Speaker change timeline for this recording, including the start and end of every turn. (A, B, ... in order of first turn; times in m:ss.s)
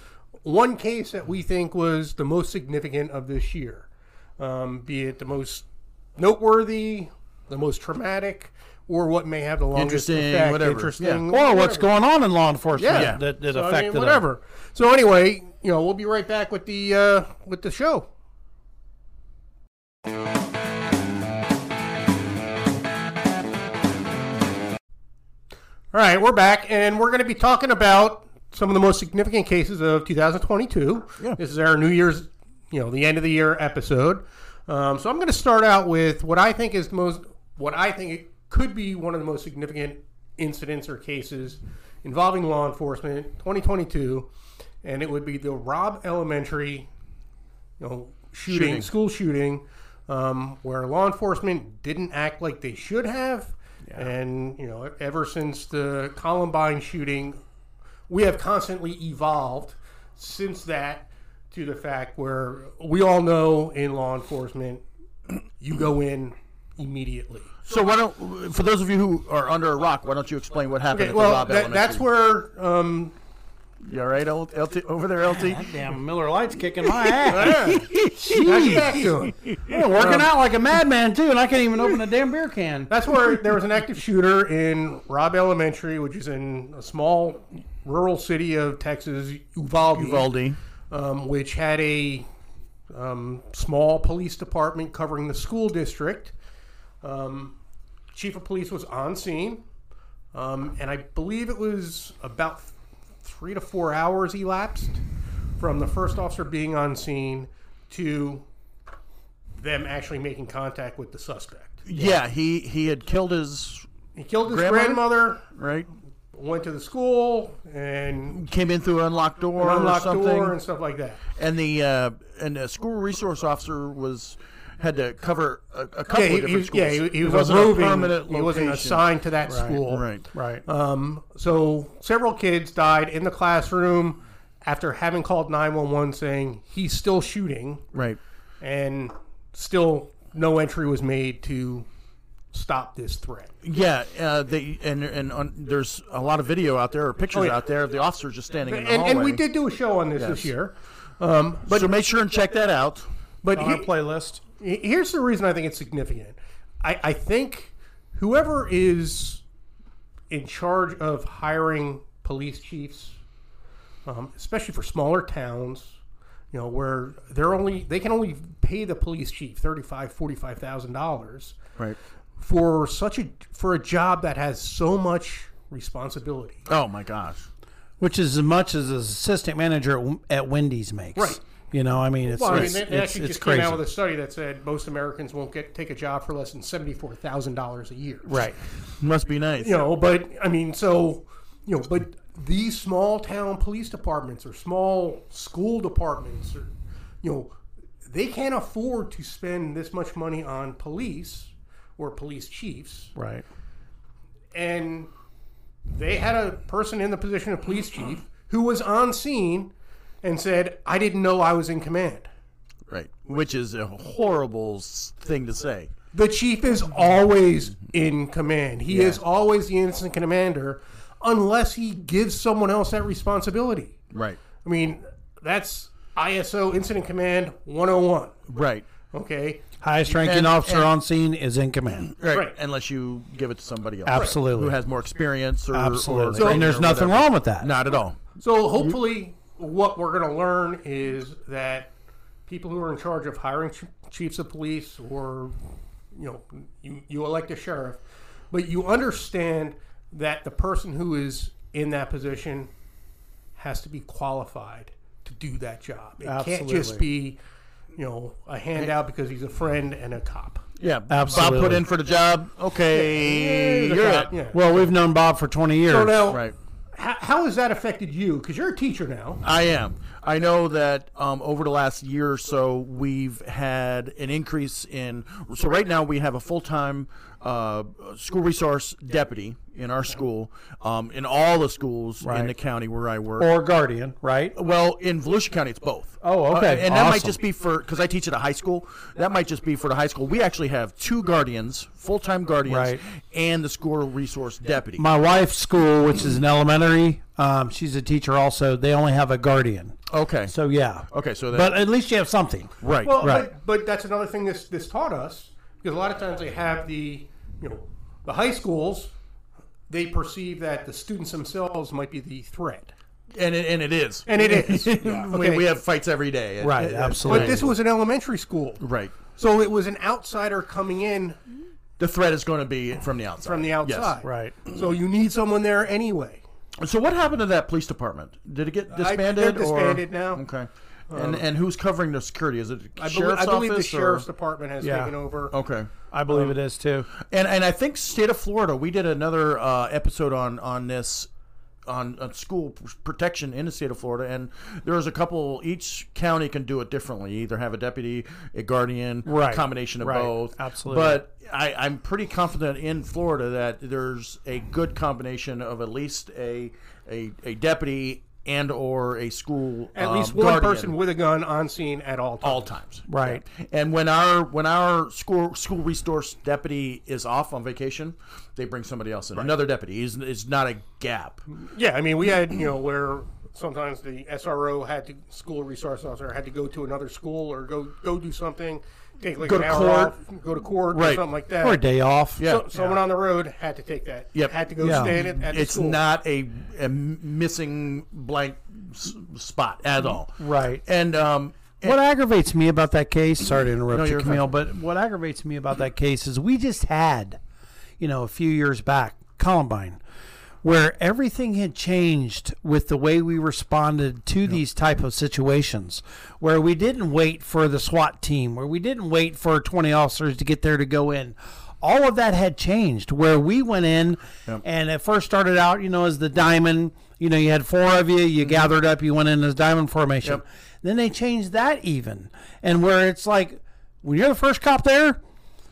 0:00.4-0:03.9 A
0:04.4-0:05.6 A
0:06.2-0:11.9 A
0:09.8-0:11.2 B
0:11.3-0:14.2 C
0:12.8-0:18.1 A
0:12.9-0:13.2 B
0:25.9-0:44.3 A
0:44.8-0:46.9 A
0:47.8-0:57.4 A
0:48.5-0:48.9 B
0:58.1-1:04.8 A
1:05.6-1:07.5 A
1:07.6-1:12.0 B
1:10.9-1:13.2 A
1:13.8-1:15.7 B
1:15.3-1:19.1 C
1:17.0-1:20.3 B
1:17.3-1:19.4 A
1:19.6-1:22.9 C
1:22.9-1:30.3 A
1:29.9-1:30.6 B
1:30.9-1:32.3 A
1:32.9-1:36.3 A
1:37.0-1:37.6 A
1:38.1-1:39.6 A
1:40.3-1:45.0 A
1:45.6-1:48.4 A
1:49.6-1:52.2 A
1:51.9-1:53.9 B
1:54.2-1:55.4 A
1:54.5-1:55.0 B
1:55.6-1:55.9 B
1:56.3-1:58.4 A
1:58.3-2:00.6 B
1:59.6-2:01.2 A
2:01.4-2:09.0 B
2:06.1-2:10.1 A
2:09.5-2:09.8 C
2:09.9-2:10.2 B
2:10.3-2:10.6 C
2:10.6-2:17.9 A
2:17.9-2:18.2 B
2:18.6-2:21.9 A
2:22.5-2:23.5 A
2:23.6-2:29.4 B
2:27.3-2:27.6 A
2:28.7-2:31.9 A
2:30.2-2:30.5 B
2:31.7-2:33.1 B
2:33.4-2:33.9 A
2:33.5-2:34.4 C
2:34.6-2:39.4 A
2:40.3-2:43.2 A
2:44.1-2:46.0 A
2:46.5-2:51.6 A
2:52.4-2:56.6 A
2:56.7-2:57.5 B
2:58.0-3:03.8 C
3:02.3-3:08.5 A
3:08.2-3:08.6 C
3:09.0-3:09.9 B
3:09.6-3:16.7 A
3:17.2-3:17.5 A
3:18.1-3:23.1 A
3:23.2-3:23.4 C
3:24.5-3:25.1 A
3:25.9-3:29.7 A
3:30.2-3:32.3 A
3:32.9-3:35.9 B
3:36.1-3:44.0 A
3:38.9-3:39.2 B
3:44.1-3:44.4 B
3:44.6-3:48.4 A
3:48.5-3:48.9 B
3:49.1-3:49.6 A
3:49.8-3:52.1 C
3:50.2-3:50.9 B
3:52.0-3:58.2 B
3:54.1-3:54.8 C
3:54.1-3:54.4 A
3:55.7-3:57.7 C
3:56.4-3:56.7 A
3:58.4-4:01.9 A
4:02.5-4:05.6 A
4:06.1-4:12.7 A
4:13.6-4:17.4 A
4:16.2-4:17.0 C
4:18.0-4:20.6 A
4:20.8-4:24.3 B
4:21.1-4:21.8 C
4:22.9-4:24.7 A
4:24.5-4:26.2 C
4:25.9-4:29.4 A
4:26.3-4:26.6 B
4:29.4-4:43.5 B
4:42.2-4:42.5 C
4:43.4-4:44.6 C
4:44.6-4:55.1 B
4:46.2-4:47.4 C
4:52.7-4:53.0 C
4:55.0-5:00.0 C
5:00.1-5:00.5 B
5:00.5-5:03.5 C
5:01.1-5:01.8 B
5:02.8-5:03.2 B
5:03.0-5:09.1 A
5:09.9-5:12.9 A
5:13.3-5:17.8 B
5:14.3-5:15.7 A
5:16.6-5:17.7 C
5:17.2-5:21.4 A
5:18.8-5:19.2 B
5:22.0-5:24.2 B
5:23.4-5:26.4 A
5:24.2-5:24.6 C
5:26.8-5:34.3 B
5:28.9-5:30.4 A
5:31.1-5:31.4 A
5:33.0-5:35.5 A
5:34.8-5:35.1 C
5:35.5-5:35.9 B
5:36.1-5:37.1 C
5:37.2-5:41.3 B
5:41.9-6:01.0 B
5:49.3-5:51.2 C
6:00.0-6:02.8 A
6:02.4-6:11.4 B
6:03.1-6:03.4 C
6:11.6-6:21.8 A
6:19.4-6:20.2 B
6:20.9-6:21.2 B
6:21.6-6:22.9 C
6:22.4-6:26.0 A
6:22.4-6:22.7 B
6:24.4-6:32.0 B
6:24.8-6:25.2 C
6:30.4-6:30.8 C
6:31.8-6:37.4 C
6:33.9-6:34.5 B
6:38.0-6:40.0 C
6:40.6-7:05.2 C
6:58.4-6:58.7 B